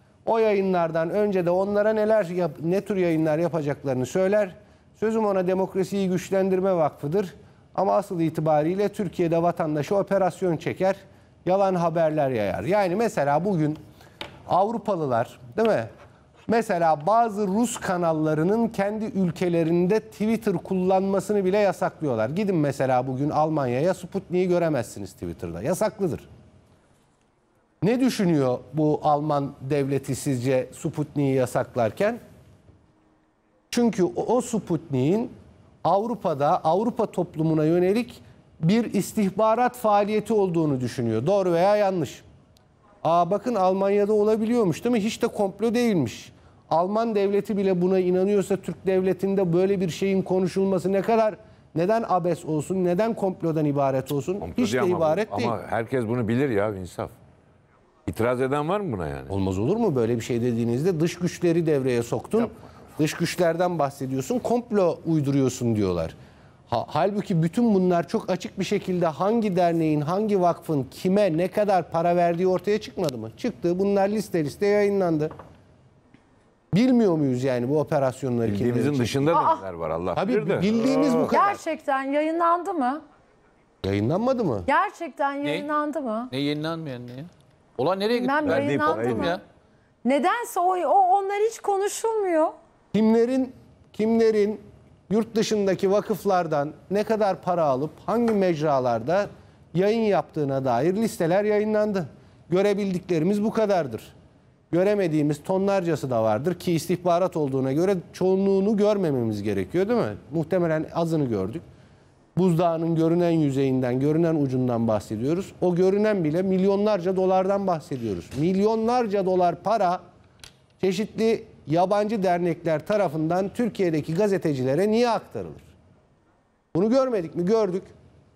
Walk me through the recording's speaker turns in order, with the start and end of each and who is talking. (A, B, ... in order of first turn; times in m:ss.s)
0:00.2-0:13.8 A
0:14.5-0:15.9 A
0:16.5-0:26.2 A
0:27.8-0:32.2 A
0:33.7-0:35.3 A
0:35.8-0:42.2 A
0:43.0-0:55.6 A
0:54.4-0:57.1 B
0:58.1-0:59.3 B
0:59.3-1:06.1 A
1:06.7-1:15.3 A
1:16.7-1:19.6 A
1:18.4-1:21.3 B
1:19.3-1:19.6 C
1:20.1-1:21.6 A
1:21.3-1:23.0 C
1:23.8-1:24.7 A
1:24.7-1:26.3 C
1:25.4-1:25.7 D
1:26.3-1:29.4 D
1:28.1-1:29.4 C
1:28.4-1:29.3 B
1:30.0-1:32.5 C
1:32.9-1:44.1 A
1:44.7-1:51.6 A
1:52.4-2:00.0 A
2:00.8-2:05.7 A
2:06.7-2:07.9 A